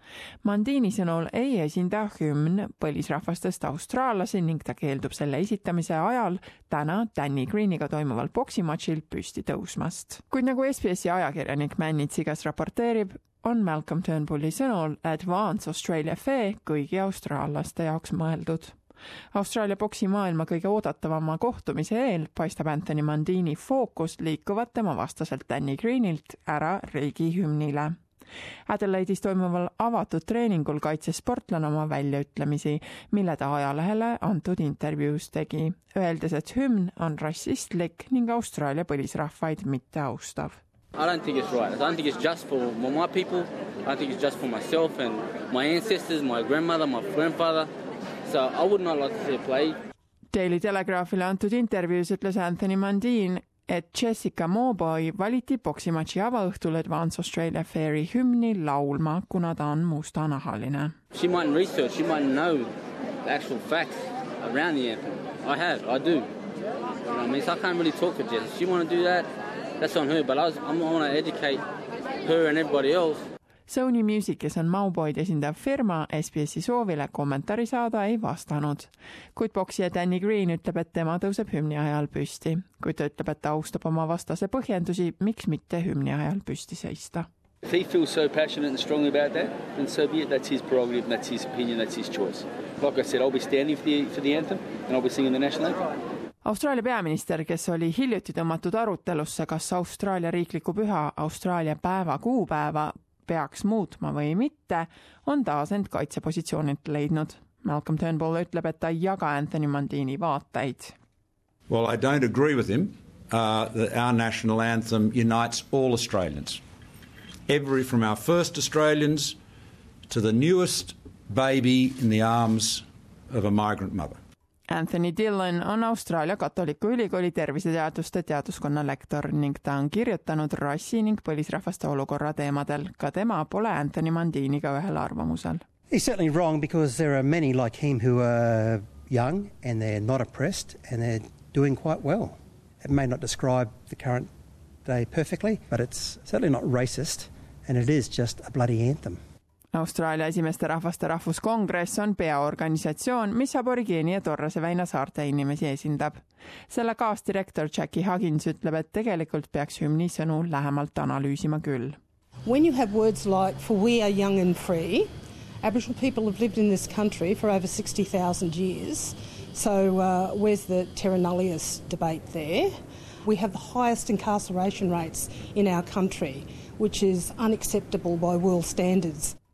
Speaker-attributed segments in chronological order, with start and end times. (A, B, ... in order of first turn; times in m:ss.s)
0:00.4-0:18.8 A
0:19.3-0:28.0 A
0:28.7-0:40.6 A
0:41.0-0:47.7 B
0:48.3-0:49.8 B
0:50.3-1:01.0 A
1:01.1-1:02.7 B
1:03.2-1:06.3 B
1:07.1-1:11.6 B
1:12.2-1:13.2 B
1:13.7-1:27.3 A
1:27.6-1:35.8 C
1:36.4-1:51.0 A
1:51.7-1:56.6 D
1:57.5-1:59.4 D
2:00.1-2:04.2 D
2:04.7-2:15.6 A
2:15.9-2:24.3 E
2:24.8-2:29.2 E
2:29.7-2:42.0 A
2:42.4-2:45.1 F
2:45.6-2:52.7 F
2:53.2-2:59.4 F